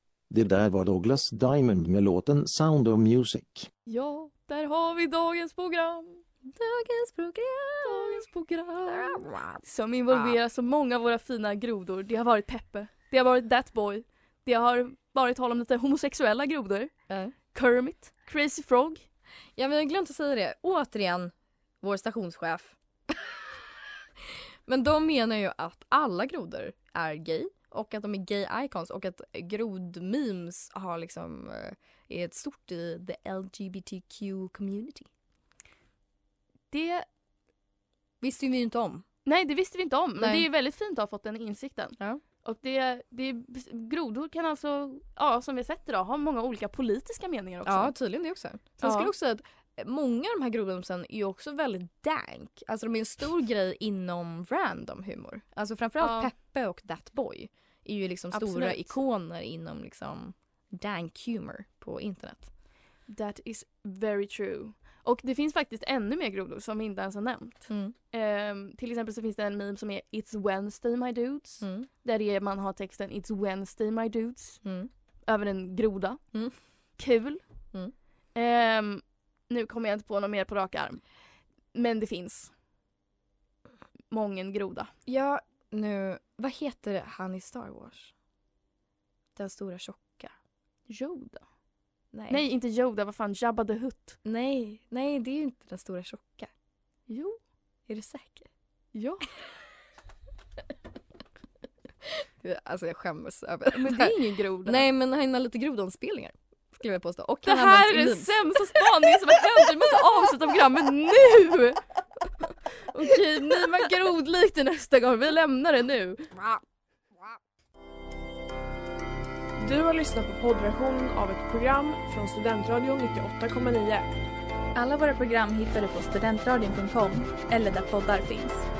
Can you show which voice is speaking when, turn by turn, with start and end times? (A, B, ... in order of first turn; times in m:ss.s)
0:00.3-0:03.7 A
0:03.9-0:06.2 B
0:06.5-0:08.3 C
0:07.8-0:19.1 B
0:08.9-0:10.4 C
0:17.1-0:17.3 C
0:19.6-0:23.4 C
0:24.7-0:35.1 C
0:36.7-0:37.0 B
0:38.2-0:39.0 C
0:39.2-0:48.0 B
0:40.2-0:40.4 C
0:47.6-1:02.5 C
0:48.8-0:49.1 B
0:56.0-0:56.3 B
0:58.3-0:59.0 B
1:03.1-1:14.6 B
1:07.7-1:07.9 C
1:11.6-1:11.9 C
1:14.6-1:14.9 C
1:15.2-1:17.4 B
1:18.3-1:21.0 B
1:21.7-1:22.5 B
1:24.1-1:24.9 B
1:25.0-1:28.1 C
1:29.4-1:30.3 C
1:30.9-1:31.4 B
1:32.1-1:32.4 C
1:32.3-1:34.2 B
1:34.2-1:36.5 C
1:37.1-1:37.4 B
1:37.9-1:38.5 C
1:38.9-1:39.3 B
1:42.2-1:49.1 C
1:43.7-1:44.8 B
1:47.4-1:56.3 B
1:56.3-1:56.6 C
1:59.6-2:04.1 D
2:04.7-2:08.7 E